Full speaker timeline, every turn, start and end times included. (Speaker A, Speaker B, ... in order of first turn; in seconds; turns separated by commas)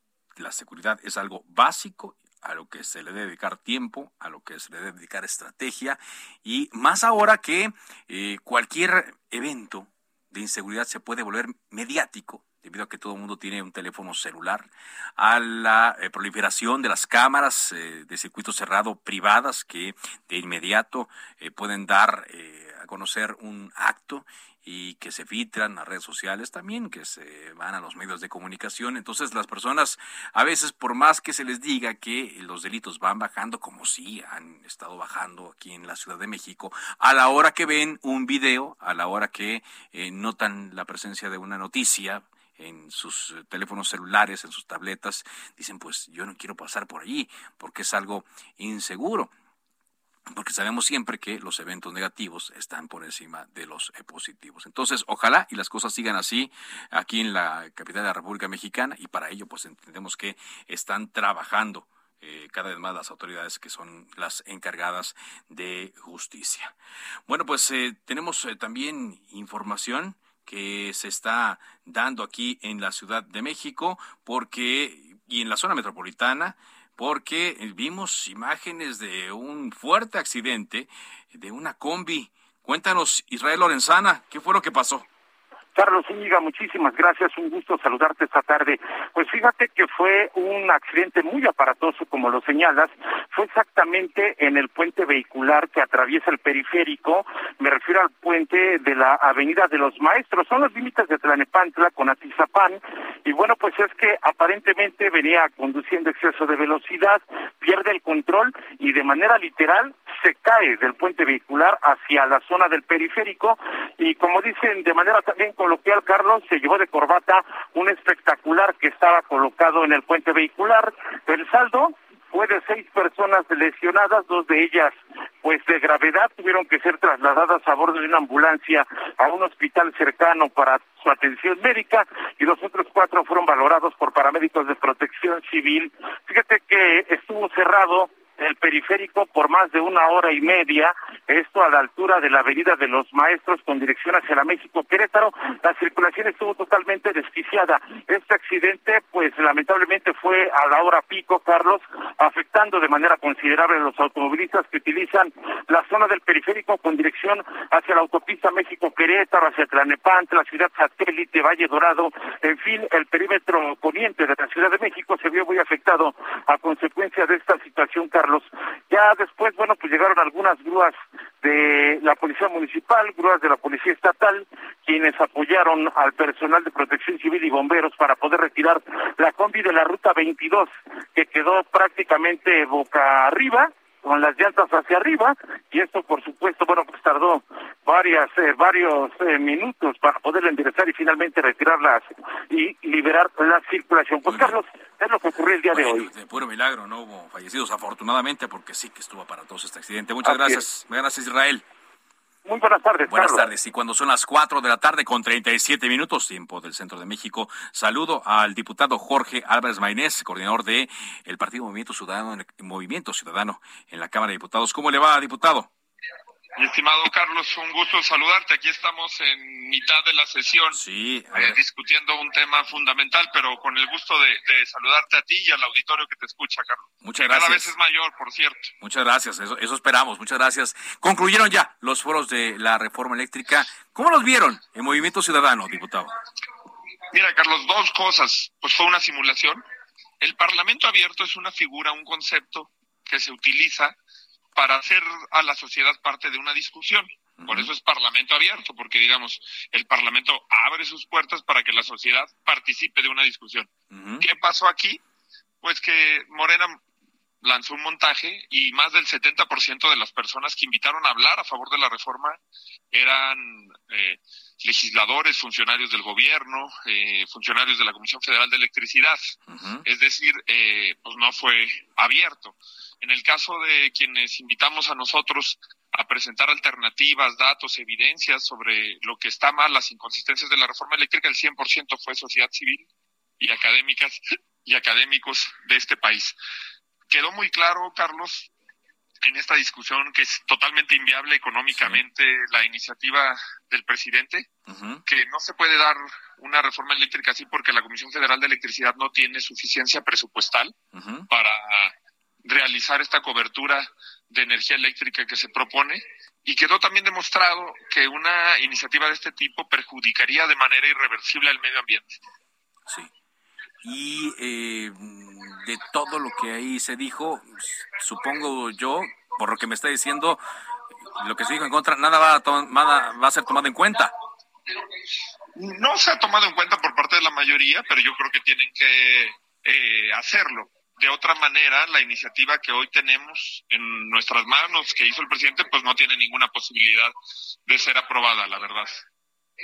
Speaker A: 0.4-49.3, Speaker A: 50.3-66.7, Speaker A: 67.3-85.0, Speaker B: 85.7-196.1, Speaker A: 194.2-194.5, Speaker A: 195.7-201.6, Speaker B: 200.2-200.6, Speaker B: 202.4-203.5, Speaker A: 203.1-215.7, Speaker C: 216.6-220.8, Speaker A: 220.7-221.6, Speaker C: 221.3-228.7, Speaker A: 227.0-227.7, Speaker A: 228.8-236.1, Speaker C: 237.1-239.6, Speaker C: 240.2-243.9, Speaker C: 244.5-253.7, Speaker A: 247.4-247.7, Speaker A: 253.9-254.2, Speaker C: 254.2-255.0, Speaker C: 255.6-256.8, Speaker C: 257.4-262.4, Speaker C: 262.9-282.9, Speaker A: 269.5-269.9, Speaker C: 283.4-286.4, Speaker C: 287.1-288.5, Speaker C: 289.2-294.5, Speaker A: 291.7-292.0, Speaker A: 294.7-295.0, Speaker C: 295.1-300.7, Speaker A: 300.9-301.3, Speaker C: 301.3-301.9, Speaker C: 302.4-312.2, Speaker A: 313.8-320.4, Speaker A: 321.1-324.1, Speaker C: 325.6-337.1, Speaker C: 337.6-339.0